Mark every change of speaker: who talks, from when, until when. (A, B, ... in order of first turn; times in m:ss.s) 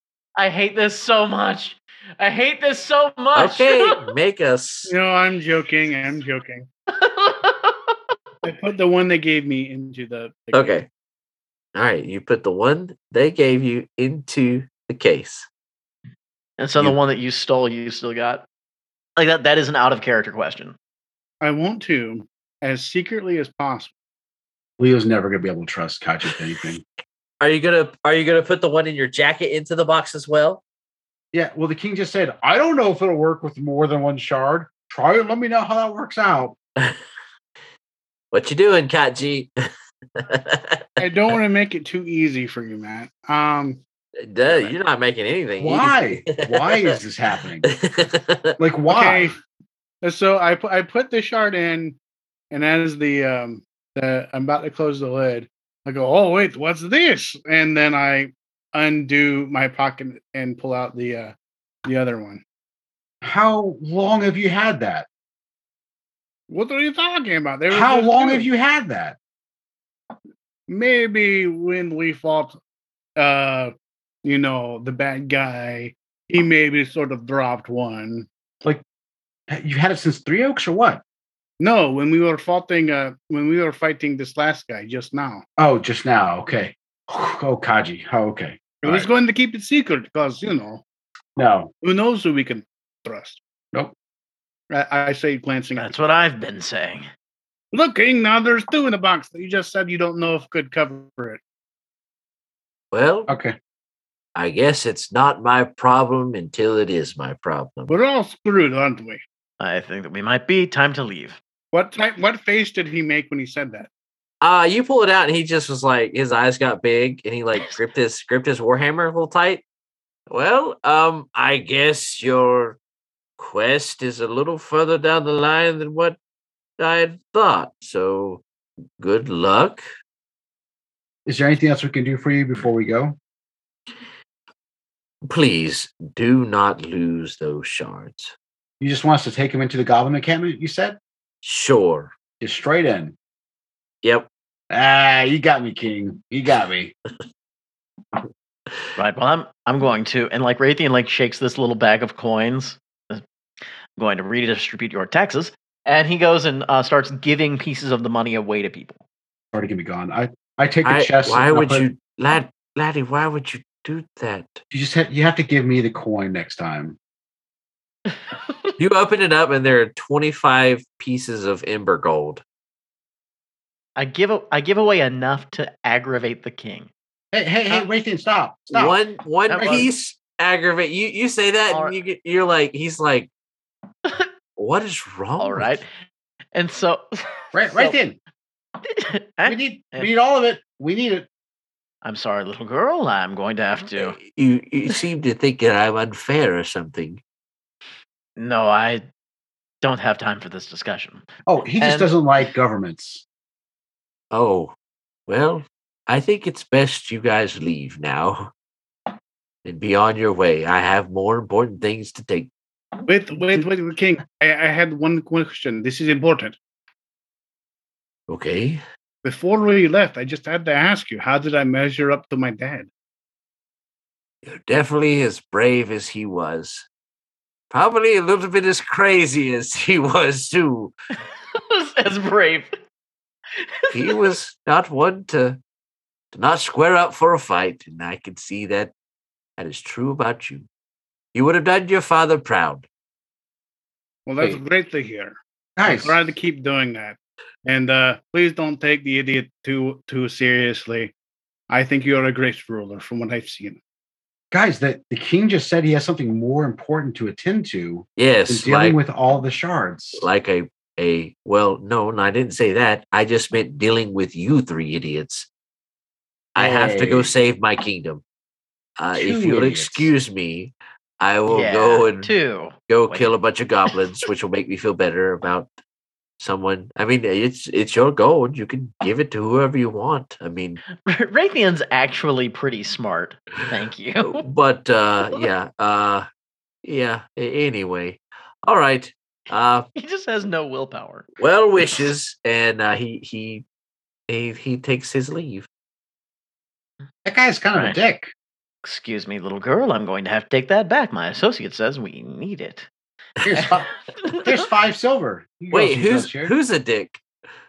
0:00.4-0:04.0 A
0:03.4-0:04.9 B
0:04.9-0:06.7 C
0:06.9-0:08.0 A
0:08.4-0:10.8 C
0:10.5-0:10.9 B
0:11.8-0:15.5 B
0:16.6-0:18.5 A
0:19.2-0:20.8 A
0:21.4-0:23.9 C
0:24.8-0:26.8 D
0:27.4-0:30.6 B
0:31.3-0:36.6 D
0:38.3-0:39.7 B
0:40.2-0:41.0 B
0:41.0-0:43.8 C
0:44.2-0:46.9 B
0:45.6-0:47.7 D
0:47.6-0:48.6 B
0:48.6-0:49.3 D
0:48.9-0:49.4 C
0:50.0-0:52.0 C
0:52.5-1:01.3 C
1:01.8-1:02.4 C
1:03.2-1:05.1 D
1:06.5-1:08.5 C
1:07.7-1:09.2 D
1:10.7-1:12.6 C
1:13.2-1:13.7 C
1:14.2-1:18.3 C
1:19.5-1:21.0 D
1:21.6-1:25.4 C
1:25.6-1:29.1 D
1:28.8-1:30.8 C
1:31.4-1:31.7 D
1:31.8-1:33.4 C
1:34.7-1:35.9 C
1:35.8-1:37.1 A
1:37.7-1:41.4 C
1:42.9-1:43.3 B
1:43.3-1:43.6 D
1:44.4-1:48.0 B
1:47.9-1:49.2 C
1:49.6-1:51.4 A
1:51.7-1:53.9 C
1:54.4-1:59.6 B
2:00.3-2:02.8 B
2:03.4-2:06.2 B
2:06.8-2:08.4 B
2:09.0-2:09.8 B
2:11.3-2:13.2 D
2:15.2-2:18.3 B
2:18.8-2:21.0 D
2:21.4-2:22.1 B
2:22.4-2:23.2 D
2:24.0-2:24.3 B
2:24.7-2:27.0 D
2:29.0-2:33.2 A
2:34.0-2:39.0 A
2:39.5-2:41.9 D
2:40.8-2:44.6 B
2:44.7-2:47.0 D
2:48.8-2:52.4 B
2:54.0-2:56.9 A
2:57.3-2:59.0 D
2:58.7-3:03.3 B
2:59.5-2:59.9 A
2:59.6-2:59.9 D
3:01.7-3:02.0 A
3:04.6-3:05.8 B
3:05.4-3:05.8 A
3:06.6-3:08.0 A
3:07.5-3:08.2 D
3:08.8-3:10.1 A
3:09.5-3:11.3 D
3:12.0-3:14.2 A
3:13.9-3:17.2 B
3:18.4-3:19.0 A
3:19.8-3:21.3 A
3:21.5-3:23.2 D
3:21.8-3:22.1 A
3:24.3-3:24.7 B
3:25.3-3:28.5 B
3:29.6-3:32.5 B
3:33.1-3:36.6 C
3:38.3-3:38.8 B
3:39.2-3:42.9 C
3:44.4-3:46.9 B
3:47.7-3:50.9 B
3:51.5-3:52.8 A
3:53.6-3:54.3 A
3:53.9-3:55.6 B
3:56.3-3:58.9 B
3:59.6-4:00.7 B
4:01.3-4:02.9 B
4:04.3-4:11.1 C
4:05.8-4:06.2 D
4:11.7-4:13.8 C
4:14.5-4:20.3 D
4:18.2-4:19.0 B
4:20.2-4:25.5 B
4:26.6-4:28.2 B
4:26.6-4:27.3 D
4:29.0-4:32.3 B
4:29.1-4:30.1 D
4:31.5-4:33.3 A
4:32.9-4:35.7 B
4:36.4-4:40.8 B
4:41.0-4:44.5 A
4:44.2-4:46.3 B
4:46.8-4:49.9 B
4:50.0-4:51.3 A
4:51.4-4:53.6 B
4:54.3-4:55.7 B
4:57.2-4:58.3 D
4:58.8-5:02.9 A
5:03.4-5:03.7 B
5:03.4-5:03.9 D
5:03.6-5:04.6 A
5:04.4-5:06.5 D
5:05.7-5:07.2 B